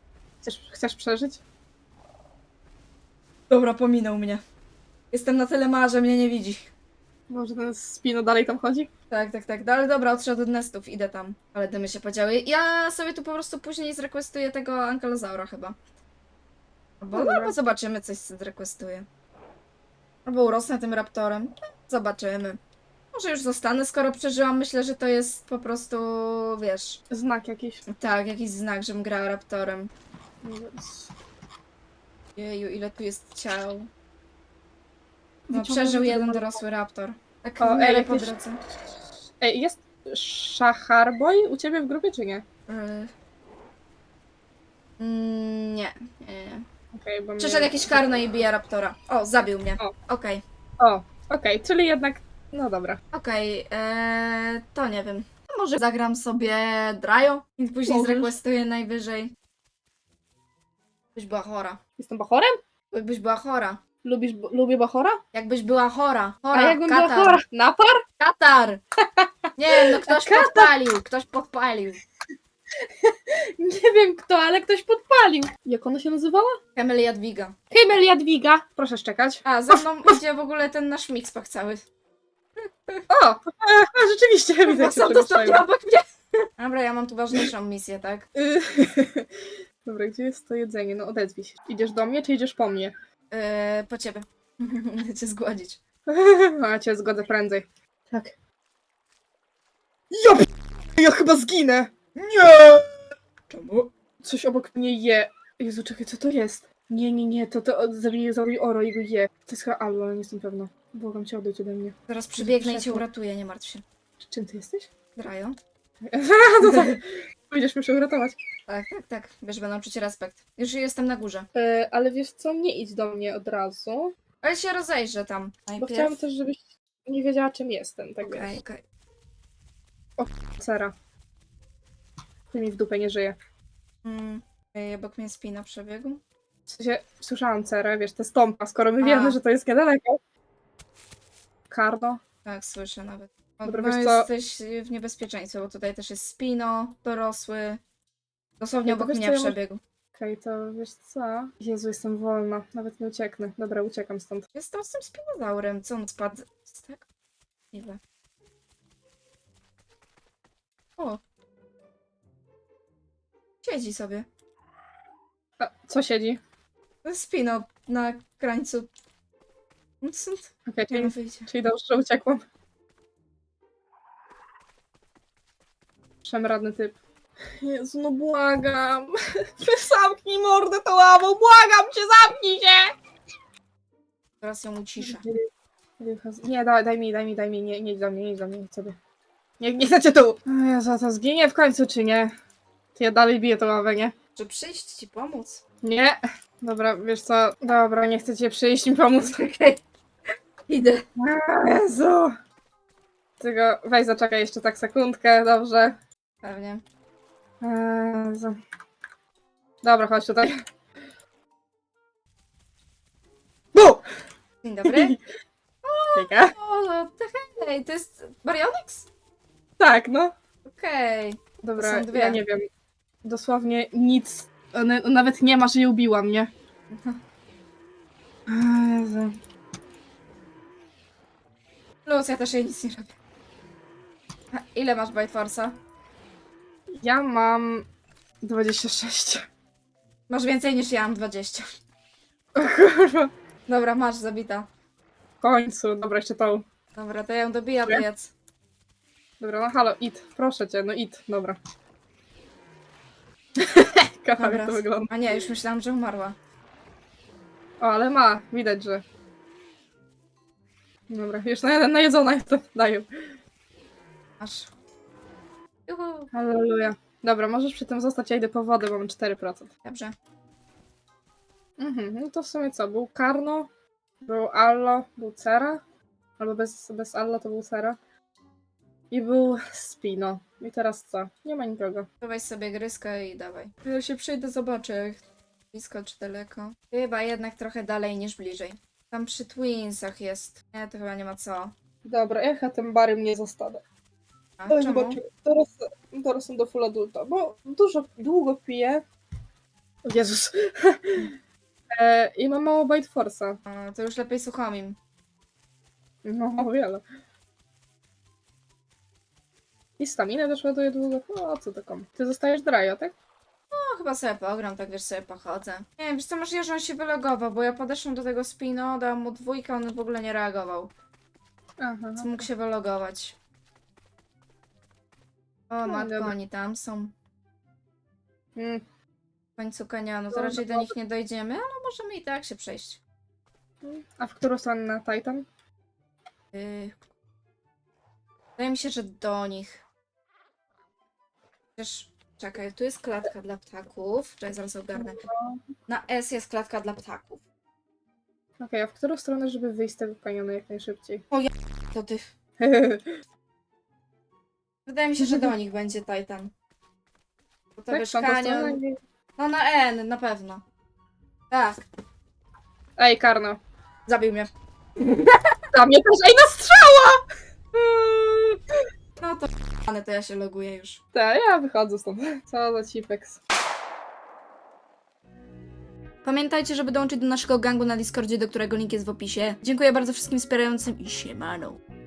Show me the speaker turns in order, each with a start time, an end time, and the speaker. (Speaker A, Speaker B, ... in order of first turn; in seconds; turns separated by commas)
Speaker A: 0.4-1.4, Speaker B: 3.5-4.4, Speaker B: 5.1-6.7, Speaker A: 7.3-8.9, Speaker B: 9.1-15.8, Speaker B: 17.0-19.1, Speaker A: 17.1-17.6, Speaker B: 20.2-22.6, Speaker B: 23.1-27.0, Speaker A: 27.1-27.8, Speaker B: 27.9-29.9, Speaker A: 30.4-31.1, Speaker B: 32.4-33.9, Speaker A: 35.5-36.6, Speaker B: 35.5-38.6, Speaker A: 37.6-38.3, Speaker A: 39.4-42.4, Speaker B: 42.7-43.1, Speaker B: 45.0-46.6, Speaker A: 46.9-48.2, Speaker B: 47.4-50.4, Speaker A: 50.8-53.0, Speaker B: 53.1-59.3, Speaker A: 57.9-58.4, Speaker B: 61.1-61.8, Speaker A: 62.0-62.6, Speaker B: 62.9-63.8, Speaker A: 64.0-65.2, Speaker B: 65.3-67.4, Speaker A: 66.5-68.0, Speaker B: 68.2-68.8, Speaker B: 69.6-72.0, Speaker A: 69.8-70.7, Speaker A: 72.8-76.6, Speaker B: 76.8-77.5, Speaker A: 77.7-80.2, Speaker B: 79.4-81.8, Speaker A: 83.1-85.6, Speaker B: 84.6-88.3, Speaker A: 88.3-92.9, Speaker B: 93.3-95.8, Speaker A: 96.1-98.3, Speaker A: 100.1-101.9, Speaker B: 102.2-102.9, Speaker B: 103.5-103.9, Speaker A: 104.2-113.0, Speaker B: 112.1-113.8, Speaker A: 114.2-114.9, Speaker B: 115.2-115.6, Speaker A: 116.0-118.4, Speaker B: 116.7-117.0, Speaker B: 118.7-121.5, Speaker A: 121.5-124.1, Speaker B: 124.4-126.2, Speaker A: 125.8-128.5, Speaker B: 128.2-128.8, Speaker A: 130.2-130.9, Speaker A: 132.5-133.3, Speaker B: 134.0-136.2, Speaker A: 136.7-140.2, Speaker B: 139.0-139.4, Speaker A: 141.7-142.2, Speaker B: 142.4-147.8, Speaker A: 143.6-144.3, Speaker B: 148.6-149.8, Speaker A: 148.8-149.6, Speaker A: 150.1-154.4, Speaker B: 154.5-157.0, Speaker B: 157.7-158.0, Speaker B: 163.6-164.3, Speaker A: 165.6-166.4, Speaker B: 167.0-168.9, Speaker B: 170.0-171.5, Speaker A: 170.7-172.4, Speaker A: 176.2-177.0, Speaker A: 177.6-182.9, Speaker B: 184.4-185.2, Speaker A: 185.0-185.4, Speaker A: 186.0-188.9, Speaker A: 189.6-192.3, Speaker A: 192.9-194.1, Speaker B: 194.3-195.6, Speaker A: 195.8-199.4, Speaker B: 199.2-199.8, Speaker B: 200.7-201.0, Speaker A: 201.2-202.3, Speaker A: 203.4-205.9, Speaker B: 206.4-206.8, Speaker A: 207.6-208.6, Speaker A: 209.8-210.5, Speaker A: 213.7-214.0, Speaker B: 214.6-215.2, Speaker A: 214.8-215.2, Speaker B: 215.8-219.1, Speaker A: 216.2-216.5, Speaker A: 219.8-220.3, Speaker B: 220.6-222.4, Speaker A: 221.6-222.6, Speaker A: 223.2-226.5, Speaker B: 226.9-227.2, Speaker A: 228.5-229.4, Speaker B: 232.0-233.1, Speaker B: 234.5-235.8, Speaker A: 237.0-237.9, Speaker A: 238.4-239.4, Speaker B: 240.3-241.7, Speaker A: 242.6-243.3, Speaker B: 243.7-244.7, Speaker A: 245.4-246.6, Speaker B: 246.9-248.3, Speaker A: 249.4-251.6, Speaker A: 253.6-255.1, Speaker B: 254.4-256.4, Speaker A: 257.8-259.0, Speaker A: 261.1-263.1, Speaker B: 264.4-264.7, Speaker B: 265.9-266.3, Speaker A: 266.3-269.7, Speaker B: 269.8-270.1, Speaker A: 271.8-273.7, Speaker A: 274.2-275.8, Speaker A: 276.4-278.0, Speaker A: 279.1-282.1, Speaker B: 282.2-285.2, Speaker B: 285.7-291.7, Speaker A: 292.0-293.8, Speaker B: 294.6-295.2, Speaker A: 294.7-299.0, Speaker A: 300.1-301.3, Speaker A: 301.9-303.6, Speaker B: 303.6-305.0, Speaker A: 306.2-307.0, Speaker A: 310.0-313.1, Speaker B: 313.7-320.9, Speaker A: 321.8-322.3, Speaker B: 322.2-323.4, Speaker B: 325.7-327.1, Speaker A: 325.9-326.3, Speaker A: 328.6-328.8, Speaker B: 329.6-333.0, Speaker A: 330.3-330.9, Speaker A: 333.8-335.4, Speaker B: 336.5-337.0, Speaker B: 338.6-339.8, Speaker B: 341.8-345.2, Speaker A: 344.9-345.6, Speaker B: 345.9-347.4, Speaker A: 348.6-351.2, Speaker B: 351.3-352.3, Speaker A: 352.6-353.2, Speaker B: 354.9-356.5, Speaker A: 355.2-355.5, Speaker B: 357.8-358.8, Speaker A: 357.9-358.9, Speaker B: 359.4-360.6, Speaker B: 361.5-361.8, Speaker A: 363.0-363.6, Speaker B: 364.1-365.5, Speaker A: 365.7-367.2, Speaker A: 367.7-368.6, Speaker B: 369.2-371.0, Speaker A: 371.1-373.4, Speaker B: 376.2-381.8